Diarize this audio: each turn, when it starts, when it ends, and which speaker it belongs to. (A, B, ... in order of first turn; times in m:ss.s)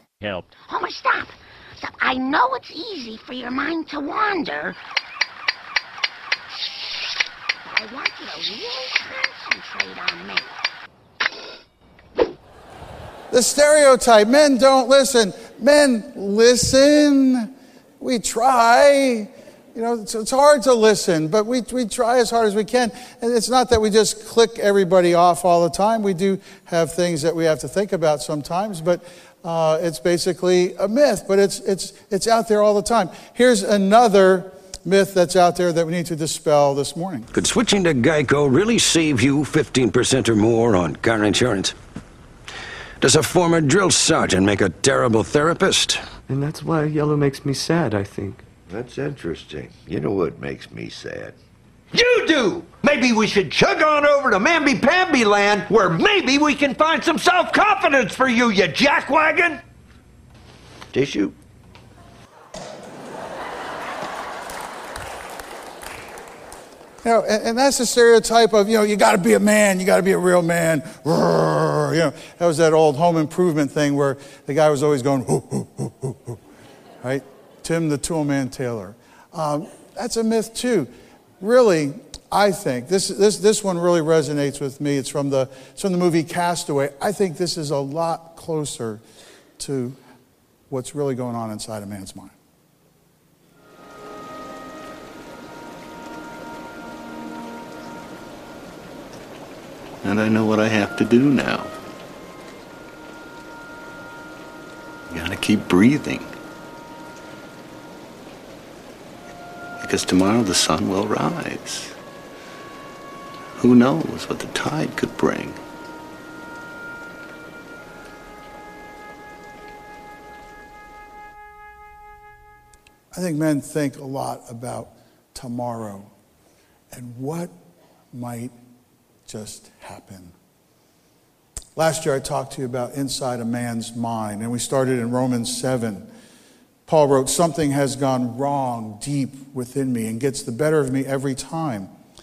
0:00.6-0:04.8 A
0:07.6-0:10.5 A
0:13.3-0:37.3 B
0:37.3-0:41.8 C
0:43.0-0:46.0 C
0:46.3-0:48.4 D
0:48.7-0:51.4 E
0:51.9-0:59.6 F
1:00.9-1:01.4 E
1:07.0-1:16.4 B
1:17.0-1:29.0 B
1:29.6-1:30.0 B
1:30.7-1:32.4 B
1:40.0-1:41.7 G
1:45.1-1:46.3 G
1:49.8-1:51.9 G
1:53.6-1:55.6 G
2:03.1-2:06.1 B
2:06.9-2:07.5 B
2:08.1-2:08.5 B
2:09.3-2:10.3 B
2:11.8-2:16.1 B
2:16.9-2:21.9 B